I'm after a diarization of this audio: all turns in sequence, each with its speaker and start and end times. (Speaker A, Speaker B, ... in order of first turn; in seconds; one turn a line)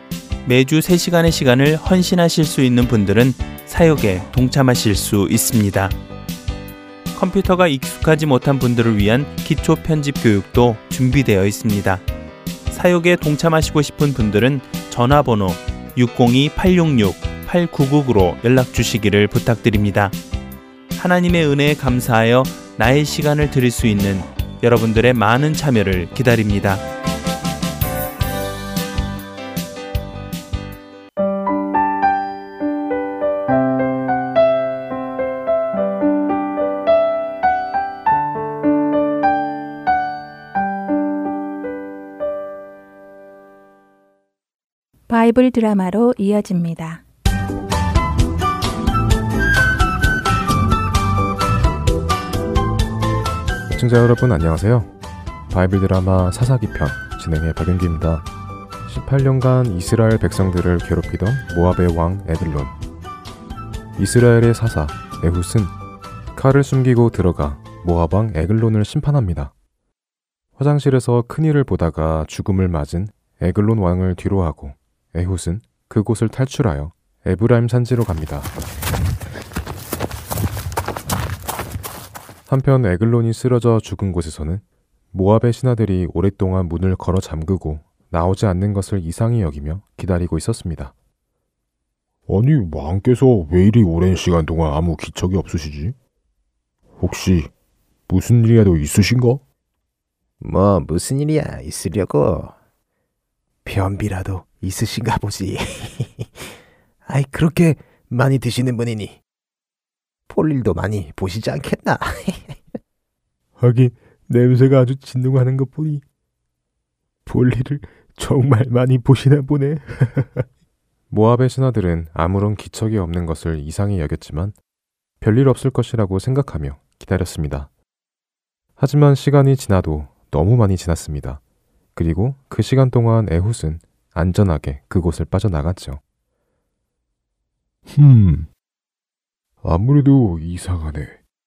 Speaker A: 0.5-6.0
Speaker A: 7.2-12.0
Speaker A: 12.7-20.2
Speaker A: 20.9-26.8
Speaker B: 45.1-47.0
Speaker C: 53.7-54.9
Speaker C: 55.5-58.3
Speaker C: 58.9-62.8
Speaker C: 64.0-65.7
Speaker C: 66.3-69.5
Speaker C: 70.6-78.5
Speaker C: 82.5-90.9
Speaker D: 92.3-96.0
Speaker D: 97.0-97.5
Speaker D: 98.1-99.4
Speaker E: 100.4-102.6
Speaker E: 103.7-106.5
Speaker E: 107.1-109.2
Speaker E: 110.3-112.6
Speaker D: 113.6-116.0
Speaker D: 117.3-120.5
Speaker C: 121.1-124.6
Speaker C: 125.2-127.7
Speaker C: 128.8-131.4
Speaker C: 131.9-136.0
Speaker D: 137.9-138.5
Speaker D: 139.6-141.2